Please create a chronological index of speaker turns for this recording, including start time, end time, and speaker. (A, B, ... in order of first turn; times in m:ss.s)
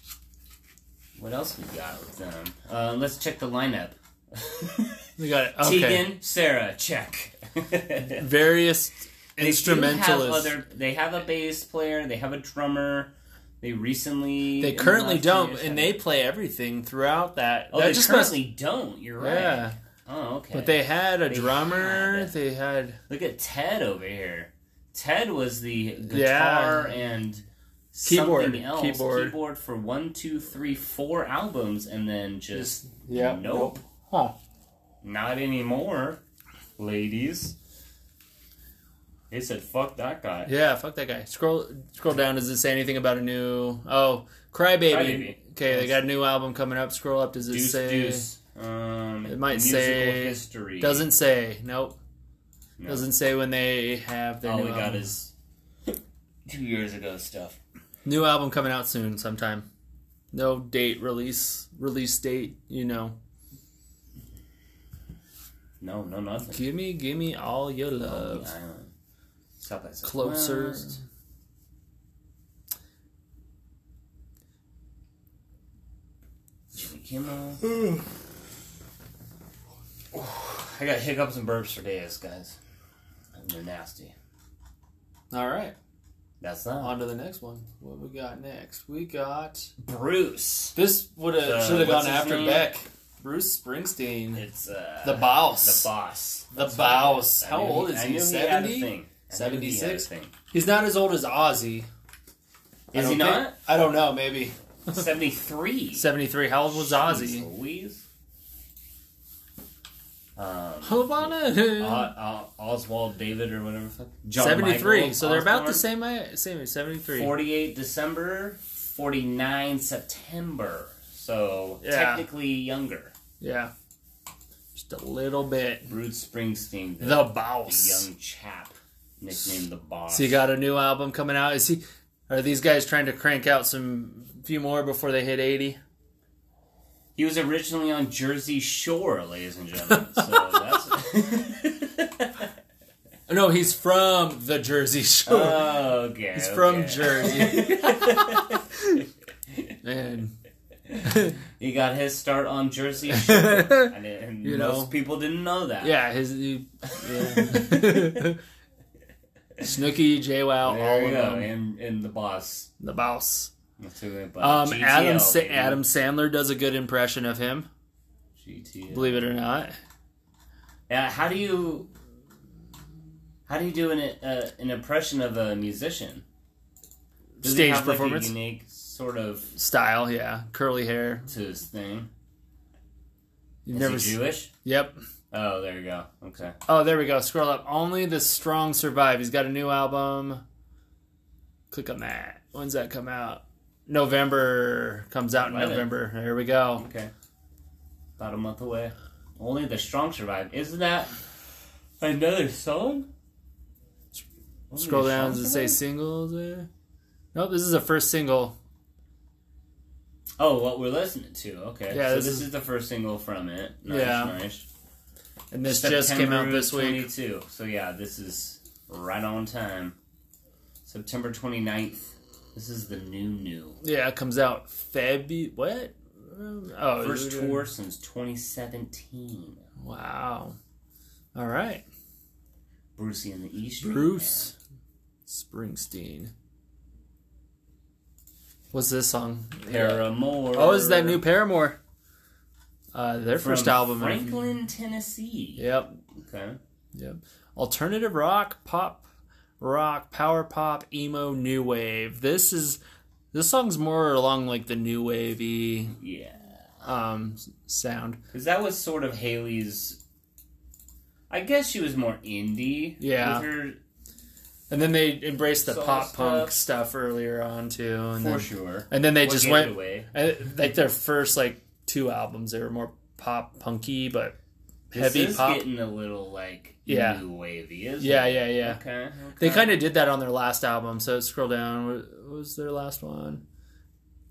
0:01.2-0:08.2 A
0:05.2-0:06.1 B
0:08.1-0:10.5 B
0:09.4-0:16.0 A
0:14.6-0:18.4 B
0:17.7-0:22.3 A
0:19.2-0:19.8 B
0:20.5-0:23.0 B
0:23.1-0:33.8 A
0:26.1-0:27.0 B
0:28.0-0:29.3 B
0:32.5-0:34.4 B
0:35.0-0:36.2 A
0:36.8-0:37.6 A
0:39.3-0:40.5 A
0:40.5-0:48.2 B
0:44.9-0:46.0 A
0:47.5-0:51.1 A
0:49.3-0:52.0 B
0:52.8-0:53.1 A
0:52.9-0:55.1 B
0:54.4-0:55.3 A
0:55.9-0:57.6 A
0:58.0-0:59.7 B
1:00.3-1:03.2 B
1:05.8-1:06.7 A
1:06.4-1:08.5 B
1:08.0-1:08.9 A
1:09.6-1:11.0 A
1:10.0-1:11.0 B
1:16.7-1:17.6 A
1:17.7-1:18.0 B
1:20.1-1:22.6 A
1:23.4-1:24.1 A
1:25.3-1:25.8 B
1:26.4-1:27.0 A
1:26.8-1:29.7 B
1:29.8-1:30.8 A
1:30.8-1:34.4 B
1:31.4-1:32.7 A
1:34.3-1:40.3 A
1:35.0-1:35.9 B
1:36.5-1:41.9 B
1:42.9-1:43.6 A
1:42.9-1:45.0 B
1:44.9-1:46.1 A
1:46.0-1:47.5 B
1:46.7-1:48.0 A
1:50.4-1:55.8 A
1:50.8-1:52.1 B
1:54.4-1:57.4 B
1:57.1-2:03.1 A
2:01.8-2:02.2 B
2:03.4-2:03.7 B
2:04.8-2:05.9 B
2:05.9-2:10.4 A
2:07.0-2:08.1 B
2:10.1-2:15.8 B
2:17.2-2:22.5 A
2:19.9-2:20.6 B
2:23.3-2:25.8 B
2:25.3-2:28.6 A
2:26.4-2:29.0 B
2:29.8-2:30.3 B
2:30.9-2:36.0 A
2:31.0-2:31.4 B
2:33.1-2:34.9 B
2:35.8-2:38.4 B
2:36.9-2:38.2 A
2:39.6-2:41.5 B
2:40.6-2:42.7 A
2:42.8-2:43.5 B
2:43.8-2:45.8 A
2:44.4-2:47.7 B
2:48.4-2:49.3 A
2:48.9-2:49.8 B
2:50.9-2:51.9 A
2:53.5-2:56.2 A
2:57.4-2:58.3 B
2:57.4-2:59.5 A
2:59.6-3:01.3 B
3:01.3-3:02.1 A
3:03.6-3:05.0 B
3:03.7-3:04.5 A
3:05.3-3:06.6 A
3:06.7-3:10.4 B
3:11.7-3:16.8 B
3:15.4-3:15.9 A
3:16.8-3:17.1 A
3:18.2-3:21.2 A
3:22.0-3:23.1 A
3:24.7-3:25.8 A
3:24.8-3:26.7 B
3:27.3-3:28.6 B
3:30.4-3:34.7 A
3:31.9-3:32.5 B
3:33.9-3:34.4 B
3:35.5-3:37.1 B
3:35.7-3:40.0 A
3:40.9-3:43.8 A
3:43.8-3:47.7 B
3:47.0-3:49.6 A
3:49.8-3:50.6 B
3:51.4-3:51.8 B
3:53.0-3:54.5 A
3:53.8-3:54.6 B
3:55.3-3:56.3 B
3:58.7-4:01.8 B
3:59.7-4:01.2 A
4:02.9-4:04.5 B
4:03.3-4:06.6 A
4:05.6-4:05.9 B
4:06.9-4:09.0 B
4:09.6-4:12.8 B
4:13.3-4:16.0 B
4:15.9-4:16.9 A
4:16.8-4:18.2 B
4:18.3-4:20.0 A
4:21.3-4:23.8 A
4:23.0-4:23.5 B
4:24.7-4:34.4 B
4:25.6-4:26.6 A
4:28.2-4:30.1 A
4:34.9-4:35.6 B
4:34.9-4:39.8 A
4:36.9-4:37.2 B
4:38.0-4:38.8 B
4:39.4-4:43.4 B